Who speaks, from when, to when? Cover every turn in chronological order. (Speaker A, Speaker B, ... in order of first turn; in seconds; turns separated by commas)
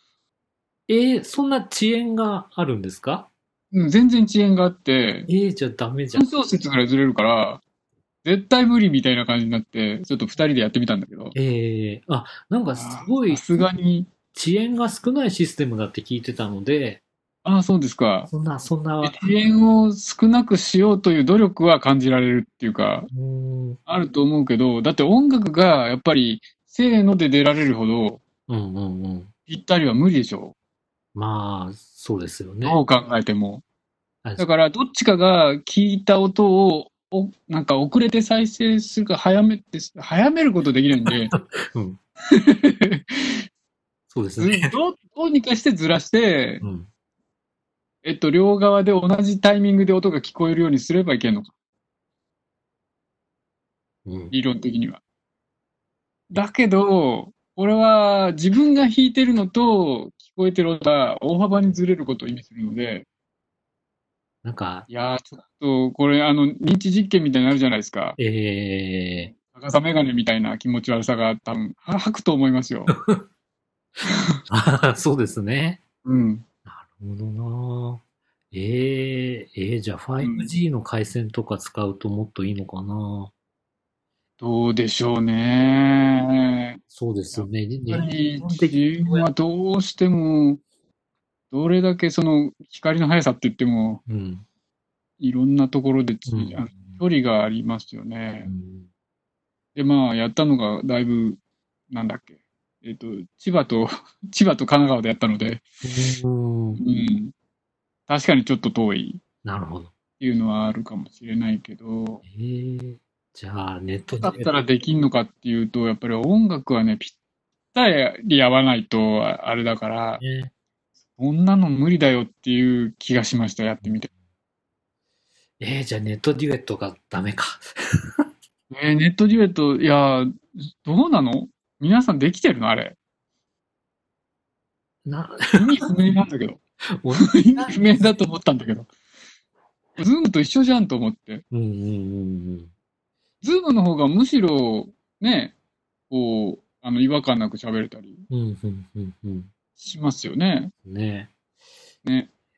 Speaker A: 0.9-3.3, Speaker B: 3.7-5.3, Speaker A: 5.3-6.3, Speaker B: 6.1-7.6, Speaker B: 8.2-11.3, Speaker A: 11.3-13.4, Speaker B: 12.7-14.1, Speaker A: 14.3-17.0, Speaker B: 17.4-18.3, Speaker A: 18.3-19.2, Speaker B: 19.0-23.1, Speaker A: 23.1-23.8, Speaker B: 23.9-28.2, Speaker A: 28.5-29.3, Speaker B: 29.5-30.6, Speaker A: 31.1-32.8, Speaker B: 32.6-33.6, Speaker B: 34.4-41.4, Speaker A: 41.1-42.0, Speaker B: 42.3-43.4, Speaker A: 44.1-44.7, Speaker B: 44.4-46.6, Speaker A: 46.6-46.9, Speaker B: 48.0-51.5, Speaker A: 54.1-54.3, Speaker B: 54.3-55.0, Speaker B: 56.3-63.1, Speaker A: 64.4-64.9, Speaker B: 64.9-68.2, Speaker A: 68.2-69.3, Speaker B: 69.5-73.0, Speaker A: 72.9-73.2, Speaker A: 74.5-75.8, Speaker B: 76.0-76.5, Speaker A: 76.7-83.3, Speaker B: 80.2-80.5, Speaker B: 84.4-86.8, Speaker A: 86.9-89.3, Speaker B: 87.3-90.6, Speaker B: 91.5-94.0, Speaker A: 94.1-94.5, Speaker B: 95.2-98.5, Speaker A: 96.3-97.0, Speaker A: 98.5-98.9, Speaker B: 99.8-105.6, Speaker A: 105.8-106.8, Speaker B: 106.8-107.3, Speaker B: 108.1-109.2, Speaker A: 109.4-109.9, Speaker B: 110.2-112.2, Speaker A: 112.2-114.6, Speaker B: 114.2-117.2, Speaker B: 117.7-120.2, Speaker A: 120.2-120.5, Speaker B: 121.2-124.1, Speaker A: 125.6-128.3, Speaker B: 128.7-133.0, Speaker A: 135.1-135.9, Speaker B: 135.6-136.6, Speaker A: 137.0-138.1, Speaker B: 137.2-138.9, Speaker B: 140.0-141.4, Speaker A: 141.5-142.7, Speaker B: 143.4-145.5, Speaker B: 146.1-148.3, Speaker A: 148.3-149.5, Speaker B: 149.8-150.7, Speaker A: 150.8-151.3, Speaker B: 152.0-152.3